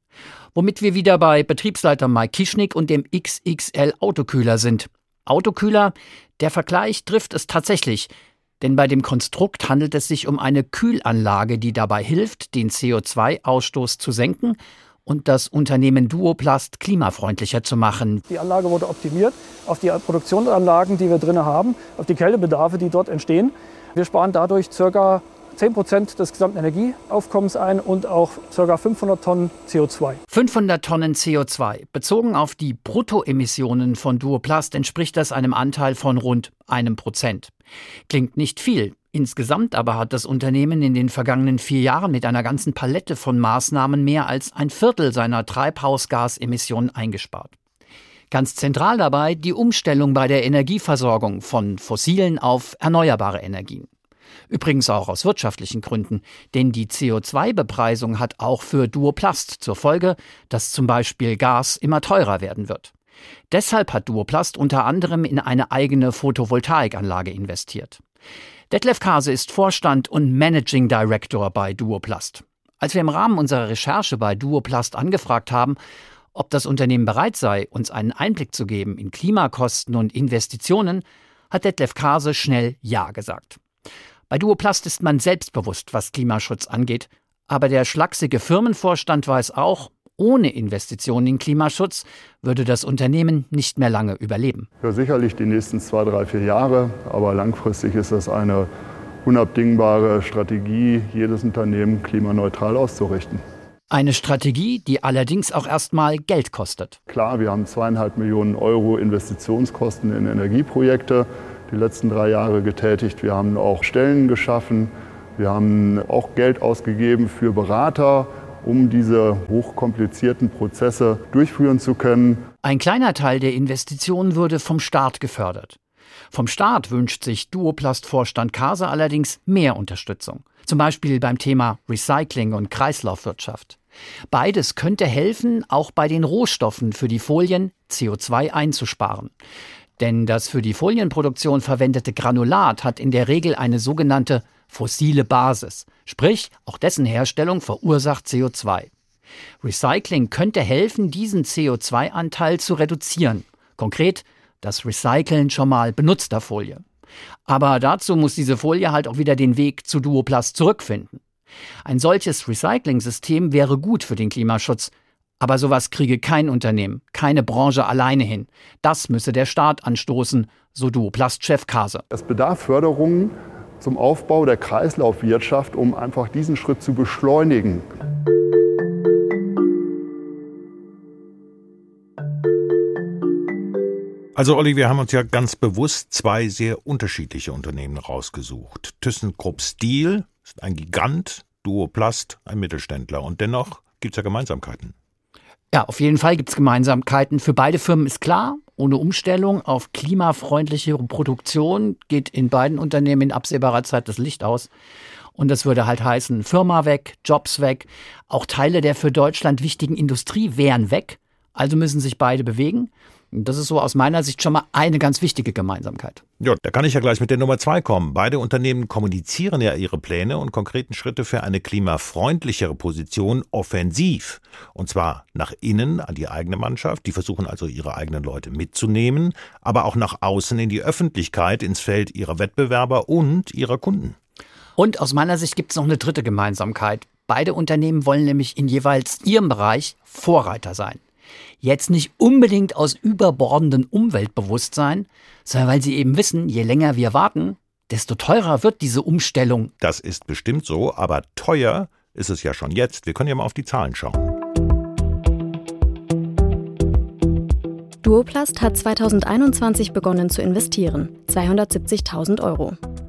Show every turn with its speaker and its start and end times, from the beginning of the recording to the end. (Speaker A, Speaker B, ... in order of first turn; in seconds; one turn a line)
Speaker A: 0.6-18.2
Speaker B: 18.3-30.2
Speaker A: 30.3-37.5
Speaker A: 38.1-47.5
Speaker A: 48.3-53.9
Speaker A: 54.5-62.9
Speaker A: 63.5-68.0
Speaker A: 68.7-75.8
Speaker A: 76.3-83.6
Speaker A: 84.3-94.7
Speaker C: 94.8-98.7
Speaker C: 99.2-103.4
Speaker A: 103.9-107.0
Speaker C: 107.1-122.4
Speaker A: 122.6-125.8
Speaker A: 126.3-133.8
Speaker A: 134.3-139.3
Speaker A: 140.0-148.9
Speaker A: 149.6-156.8
Speaker A: 157.5-161.2
Speaker A: 161.8-172.0
Speaker C: 172.1-177.8
Speaker D: 184.3-194.9
Speaker A: 195.7-204.7
Speaker A: 205.3-216.2
Speaker D: 216.4-234.2
Speaker A: 234.8-241.0
Speaker A: 241.6-249.7
Speaker D: 249.8-254.3
Speaker E: 258.0-262.8